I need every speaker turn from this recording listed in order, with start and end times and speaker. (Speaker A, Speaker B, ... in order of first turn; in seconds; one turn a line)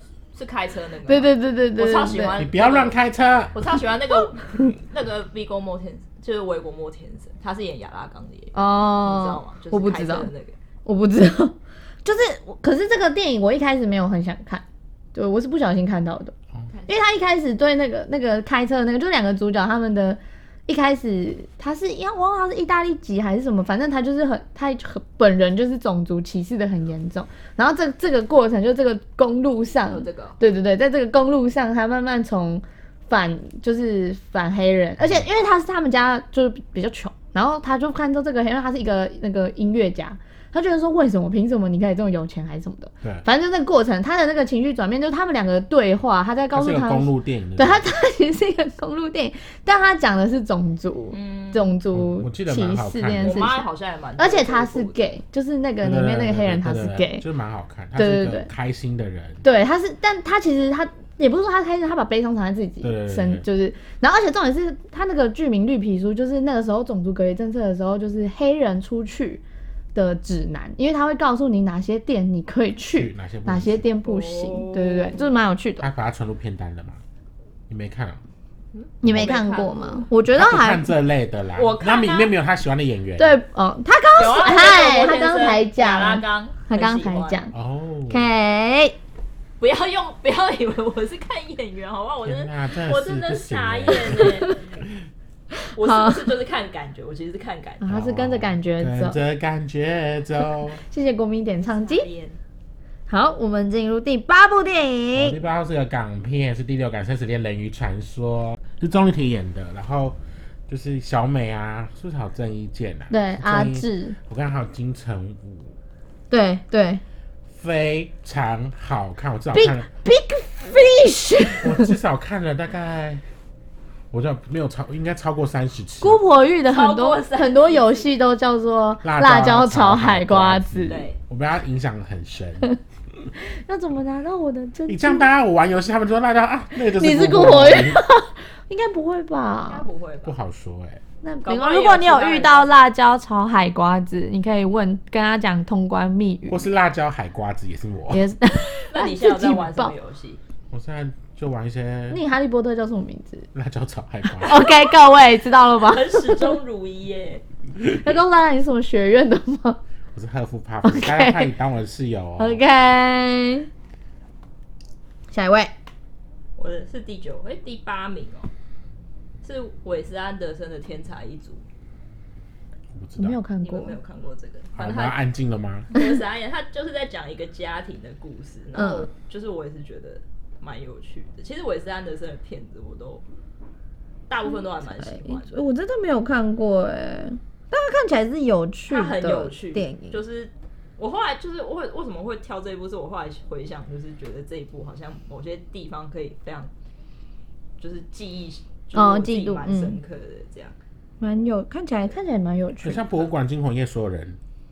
Speaker A: 0.3-2.9
Speaker B: 1.1-2.4
Speaker C: 2.4-3.5
Speaker A: 3.5-10.6
Speaker B: 8.5-10.3
Speaker B: 10.8-16.3
Speaker A: 16.7-16.9
Speaker B: 16.9-53.6
Speaker A: 29.8-30.4
Speaker C: 35.0-35.3
Speaker C: 46.5-47.9
Speaker A: 51.1-51.7
Speaker C: 51.9-53.5
Speaker A: 53.2-55.0
Speaker B: 54.2-57.2
Speaker C: 55.8-59.4
Speaker B: 58.0-58.5
Speaker B: 59.4-69.4
Speaker C: 62.8-63.4
Speaker B: 69.9-75.9
Speaker C: 72.9-73.8
Speaker A: 74.0-75.3
Speaker C: 75.8-77.0
Speaker C: 77.7-78.2
Speaker A: 78.7-80.1
Speaker B: 79.0-80.9
Speaker C: 79.0-79.4
Speaker C: 80.3-83.4
Speaker A: 81.6-82.3
Speaker B: 83.2-87.5
Speaker A: 84.2-87.5
Speaker C: 87.5-88.3
Speaker B: 88.1-89.0
Speaker A: 89.6-94.7
Speaker C: 92.2-95.1
Speaker B: 94.1-94.5
Speaker B: 95.8-96.3
Speaker A: 95.8-98.0
Speaker B: 97.8-99.2
Speaker C: 97.9-100.8
Speaker B: 100.8-102.0
Speaker A: 101.6-102.4
Speaker B: 103.1-105.4
Speaker C: 105.1-115.8
Speaker B: 113.1-114.2
Speaker B: 116.3-117.0
Speaker C: 117.5-119.9
Speaker B: 119.5-122.0
Speaker C: 121.6-123.2
Speaker C: 124.1-126.2
Speaker B: 126.0-131.1
Speaker A: 126.7-128.1
Speaker C: 129.0-132.7
Speaker A: 130.9-131.2
Speaker B: 133.4-135.3
Speaker C: 134.9-138.0
Speaker B: 136.9-139.9
Speaker A: 139.7-140.3
Speaker C: 140.2-141.0
Speaker B: 141.2-146.7
Speaker A: 141.4-142.7
Speaker C: 146.5-148.2
Speaker B: 148.1-149.9
Speaker A: 148.6-150.4
Speaker C: 150.7-152.2
Speaker B: 152.1-153.5
Speaker C: 153.5-154.7
Speaker B: 154.2-156.6
Speaker A: 155.8-157.4
Speaker B: 157.8-159.8
Speaker C: 160.1-162.6
Speaker B: 160.8-161.5
Speaker B: 162.4-163.7
Speaker B: 165.3-165.7
Speaker A: 166.6-168.5
Speaker A: 169.4-171.6
Speaker C: 172.9-173.4
Speaker B: 173.2-174.0
Speaker A: 173.6-175.2
Speaker C: 174.8-175.9
Speaker A: 175.9-183.2
Speaker B: 178.7-179.1
Speaker A: 184.3-185.6
Speaker B: 184.4-190.2
Speaker A: 188.9-196.7
Speaker A: 197.8-200.8
Speaker B: 198.9-200.0
Speaker B: 201.2-203.1
Speaker C: 202.8-204.4